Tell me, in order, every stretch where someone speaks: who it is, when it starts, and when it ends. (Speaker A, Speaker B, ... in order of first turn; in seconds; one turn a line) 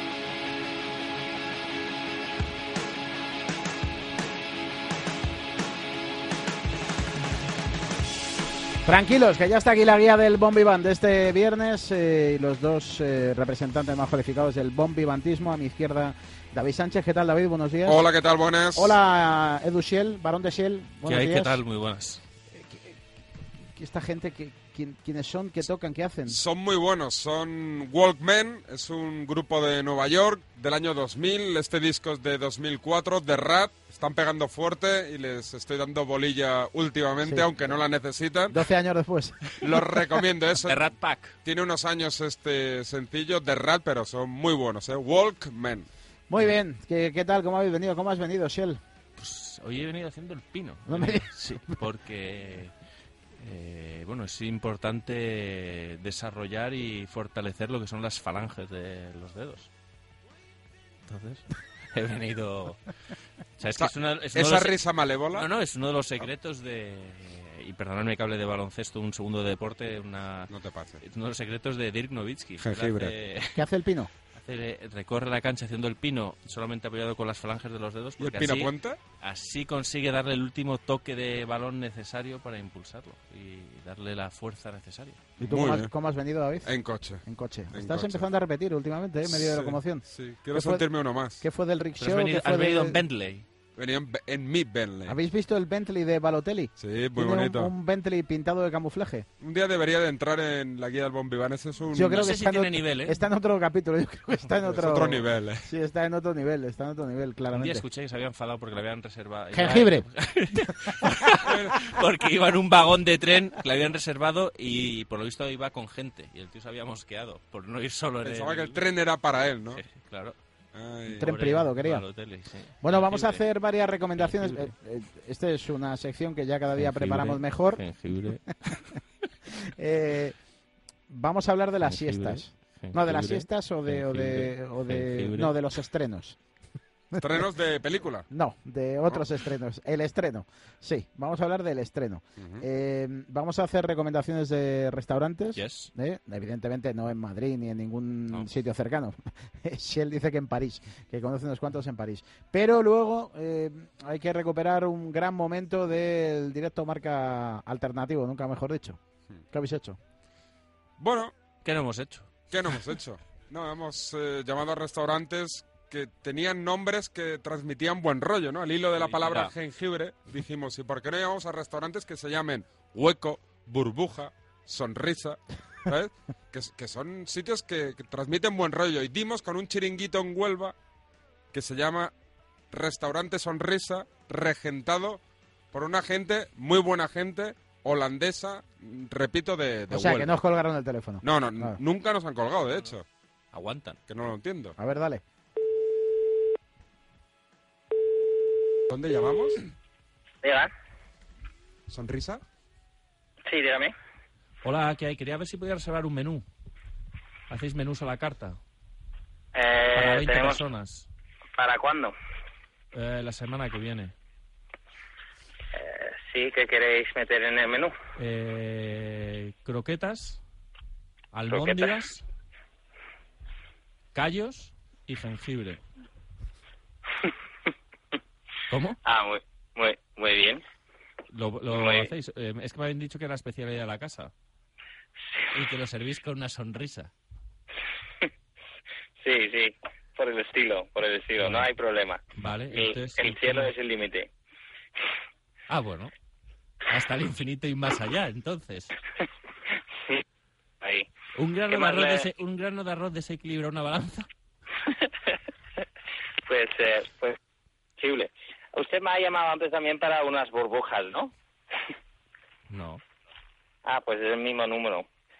Speaker A: 8.8-18.1
Speaker B: 17.9-19.0
Speaker A: 18.8-21.6
Speaker C: 21.0-22.2
Speaker A: 22.5-23.0
Speaker A: 23.8-26.4
Speaker B: 26.3-38.6
Speaker A: 37.2-37.8
Speaker A: 38.5-39.6
Speaker B: 39.6-40.9
Speaker C: 40.6-41.4
Speaker B: 41.4-45.9
Speaker A: 46.3-48.8
Speaker C: 49.2-52.7
Speaker A: 50.9-51.8
Speaker C: 53.4-59.7
Speaker C: 61.0-62.8
Speaker C: 63.6-64.8
Speaker B: 63.8-65.5
Speaker C: 65.3-70.5
Speaker B: 70.5-71.0
Speaker C: 71.0-73.7
Speaker B: 72.6-73.1
Speaker A: 73.5-74.1
Speaker C: 74.3-85.2
Speaker B: 78.2-79.0
Speaker B: 85.4-85.9
Speaker A: 85.4-86.7
Speaker B: 86.6-88.3
Speaker A: 87.2-90.9
Speaker B: 89.2-91.5
Speaker A: 91.4-93.0
Speaker C: 92.0-93.5
Speaker B: 93.8-95.2
Speaker A: 95.1-99.3
Speaker B: 96.8-97.7
Speaker B: 99.4-102.3
Speaker A: 101.9-107.9
Speaker C: 102.1-103.2
Speaker B: 104.7-105.7
Speaker C: 107.5-118.8
Speaker A: 109.5-110.1
Speaker B: 111.4-111.8
Speaker B: 118.2-119.8
Speaker C: 119.7-120.4
Speaker B: 120.7-121.2
Speaker C: 121.1-123.5
Speaker A: 121.2-122.1
Speaker A: 122.8-127.9
Speaker C: 124.1-124.7
Speaker C: 126.8-128.9
Speaker A: 129.7-130.4
Speaker A: 131.1-136.4
Speaker C: 131.8-135.6
Speaker A: 137.2-137.4
Speaker B: 137.2-138.3
Speaker A: 138.3-159.0
Speaker B: 142.4-142.7
Speaker C: 145.5-145.9
Speaker A: 159.5-160.0
Speaker B: 161.0-161.3
Speaker C: 161.6-162.3
Speaker B: 162.5-180.8
Speaker C: 168.9-169.5
Speaker B: 181.5-182.1
Speaker B: 182.7-190.3
Speaker A: 189.9-191.8
Speaker B: 191.2-193.0
Speaker C: 193.5-194.0
Speaker B: 194.1-194.8
Speaker A: 194.8-195.2
Speaker B: 198.9-199.6
Speaker D: 200.4-200.7
Speaker B: 201.9-202.4
Speaker D: 203.5-203.9
Speaker C: 204.6-206.4
Speaker C: 207.5-208.6
Speaker D: 209.6-210.6
Speaker C: 209.9-211.1
Speaker D: 211.6-212.2
Speaker C: 212.9-214.1
Speaker D: 215.8-217.9
Speaker C: 218.2-220.4
Speaker C: 221.3-222.2
Speaker D: 221.5-221.9
Speaker C: 224.1-225.8
Speaker C: 228.7-229.0
Speaker D: 229.1-230.6
Speaker C: 231.3-234.3
Speaker D: 231.7-232.1
Speaker C: 235.5-237.1
Speaker D: 239.2-244.3
Speaker C: 241.4-241.7
Speaker C: 242.3-243.7
Speaker C: 245.7-246.1
Speaker C: 246.9-248.9
Speaker D: 250.8-251.1
Speaker C: 251.3-254.3
Speaker D: 251.7-252.2
Speaker D: 254.9-255.2
Speaker D: 256.5-257.4
Speaker D: 258.0-261.3
Speaker C: 262.7-263.0
Speaker D: 263.9-265.1